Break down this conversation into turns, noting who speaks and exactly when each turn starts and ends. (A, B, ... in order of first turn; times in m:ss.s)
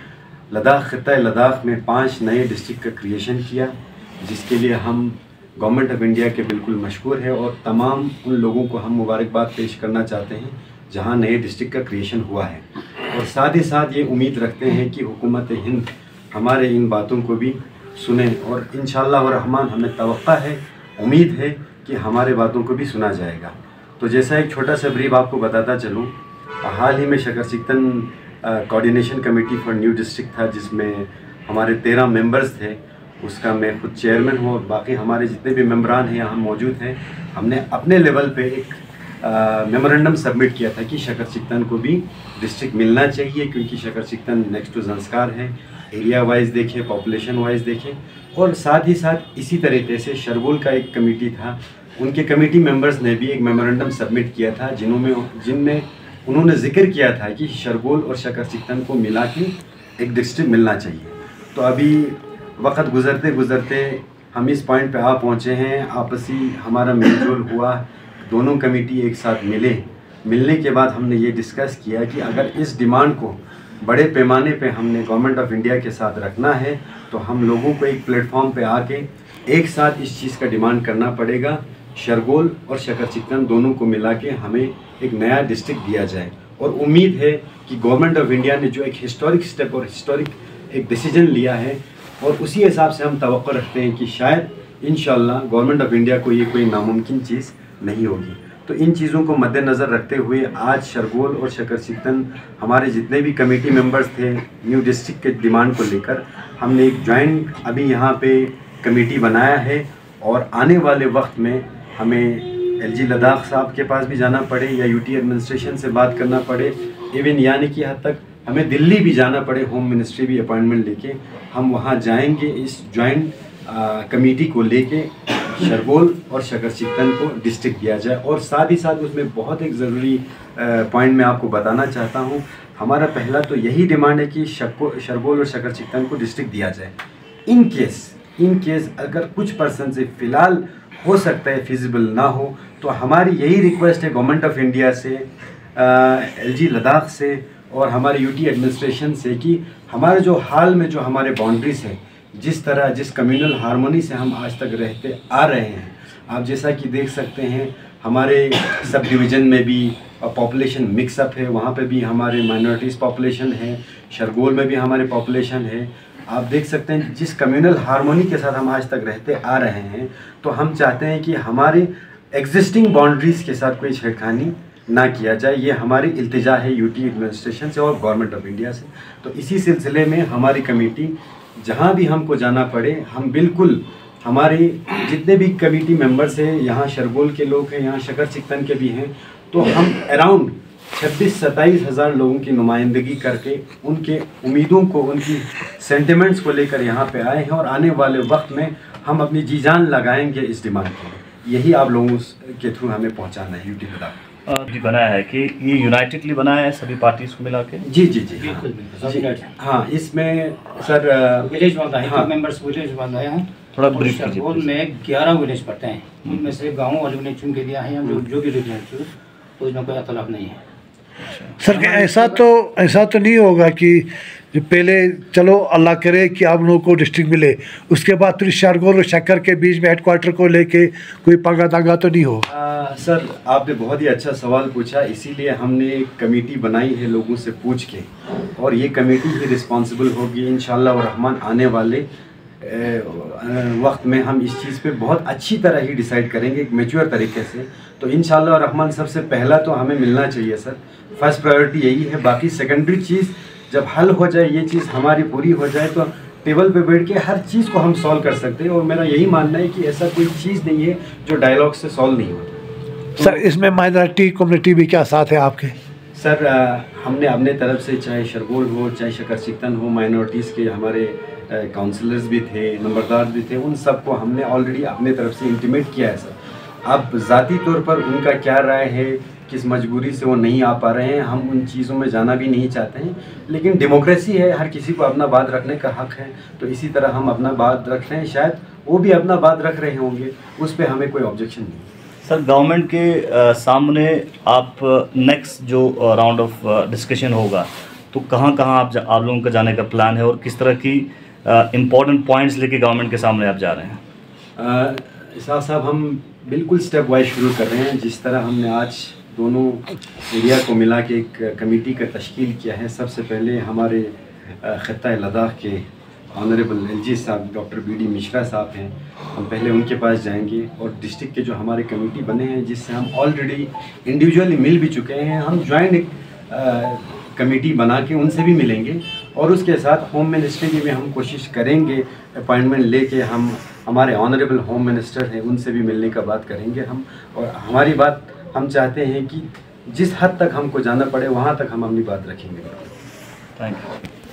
0:00.5-2:16.9 A
2:17.5-3:24.2 A
3:24.5-3:27.8 B
3:27.8-3:32.3 A
3:28.3-3:29.5 C
3:31.4-3:40.6 C
3:33.7-3:34.7 B
3:41.3-3:41.6 B
3:41.6-3:52.4 D
3:41.7-3:42.4 C
3:52.5-4:02.0 A
4:02.6-4:22.6 A
4:23.2-4:23.4 A
4:23.2-4:25.7 D
4:26.1-4:51.9 A
4:52.2-5:04.0 B
5:04.6-5:42.9 A
5:43.6-5:43.9 B